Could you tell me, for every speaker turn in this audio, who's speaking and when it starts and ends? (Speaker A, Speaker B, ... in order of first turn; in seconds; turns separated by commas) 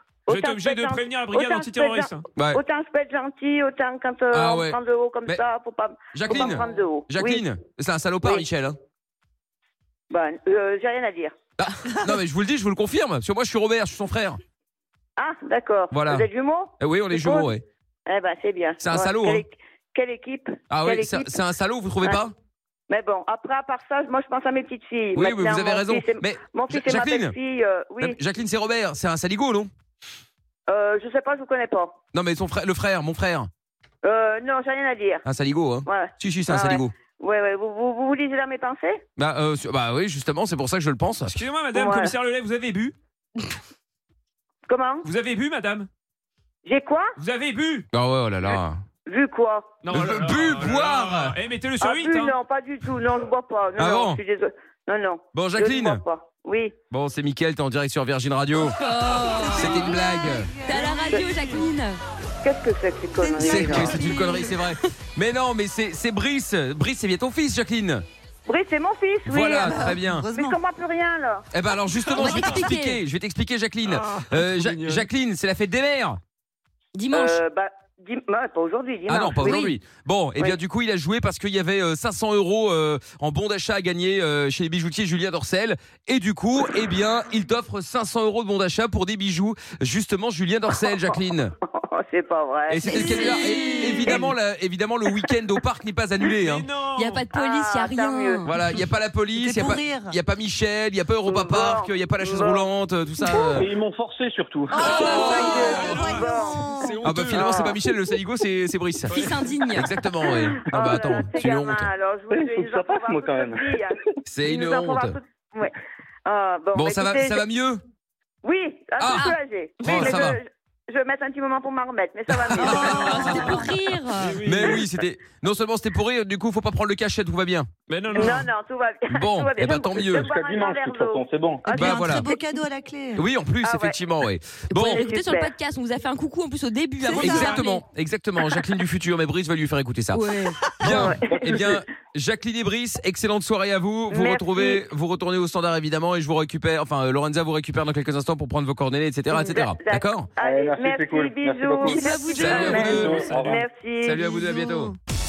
Speaker A: 0.3-7.5, Speaker B: 0.3-2.3, Speaker C: 2.4-2.6, Speaker C: 4.3-5.5, Speaker C: 6.1-8.8, Speaker A: 10.1-11.4, Speaker C: 11.6-14.4, Speaker A: 15.2-17.5, Speaker C: 15.9-16.3, Speaker C: 16.8-17.6, Speaker A: 18.1-21.5, Speaker C: 18.8-19.4, Speaker C: 20.7-22.3, Speaker A: 22.9-28.2, Speaker C: 25.1-27.4, Speaker C: 28.0-29.7, Speaker A: 30.7-32.0, Speaker C: 32.1-33.5, Speaker A: 34.0-35.2, Speaker C: 35.2-37.0, Speaker A: 35.9-39.0, Speaker C: 39.2-41.4, Speaker B: 41.3-43.0, Speaker A: 41.7-42.1, Speaker A: 44.7-45.1, Speaker B: 45.0-45.9, Speaker A: 46.6-47.1, Speaker B: 47.2-47.9, Speaker C: 47.9-48.8, Speaker A: 49.1-49.8, Speaker B: 49.8-52.4, Speaker C: 49.9-51.4, Speaker A: 51.8-56.8, Speaker C: 53.8-54.2, Speaker C: 55.3-56.0, Speaker C: 56.9-58.8, Speaker D: 58.6-62.0, Speaker C: 59.4-60.7, Speaker B: 60.6-61.6, Speaker A: 62.4-64.0, Speaker E: 63.2-64.7, Speaker C: 63.4-68.0, Speaker A: 68.5-71.5, Speaker C: 69.2-70.3, Speaker E: 70.0-70.6, Speaker C: 71.5-76.2, Speaker B: 72.1-72.7, Speaker D: 72.2-73.0, Speaker B: 73.8-75.1, Speaker D: 77.0-77.4, Speaker A: 77.1-79.7, Speaker C: 79.1-91.5, Speaker D: 79.5-79.7, Speaker A: 91.6-93.6, Speaker C: 92.7-96.7, Speaker D: 92.9-94.2, Speaker B: 96.4-97.3, Speaker D: 97.0-98.4, Speaker A: 97.3-98.4, Speaker C: 98.4-103.7, Speaker E: 99.3-100.2, Speaker A: 101.2-102.7, Speaker F: 103.4-106.0, Speaker B: 104.8-107.8, Speaker C: 104.8-106.2, Speaker A: 105.1-106.7, Speaker D: 105.6-105.9, Speaker E: 106.0-106.9, Speaker C: 107.0-111.9, Speaker F: 107.3-107.7, Speaker B: 109.1-109.6, Speaker D: 109.1-109.9, Speaker A: 110.3-115.8, Speaker F: 110.6-111.2, Speaker F: 112.3-114.1, Speaker C: 114.3-115.2, Speaker A: 116.3-117.5, Speaker C: 116.7-117.8, Speaker A: 118.4-123.4, Speaker C: 119.0-120.4, Speaker C: 122.3-123.8, Speaker D: 122.7-124.4, Speaker B: 124.2-124.9, Speaker C: 124.4-127.7, Speaker B: 127.9-128.5, Speaker A: 128.1-132.0, Speaker C: 129.1-130.3, Speaker F: 130.1-131.7, Speaker C: 131.7-132.4, Speaker E: 131.7-133.3, Speaker C: 133.2-135.1, Speaker A: 133.6-134.0, Speaker D: 134.7-137.8, Speaker A: 134.8-135.6, Speaker C: 137.1-150.3, Speaker B: 137.1-137.8, Speaker D: 140.2-140.6, Speaker A: 140.9-141.8, Speaker F: 140.9-141.8, Speaker A: 144.1-144.8, Speaker A: 149.3-154.3, Speaker F: 150.4-153.6, Speaker D: 151.9-152.5, Speaker C: 152.3-153.3, Speaker B: 152.5-153.6, Speaker C: 154.0-155.0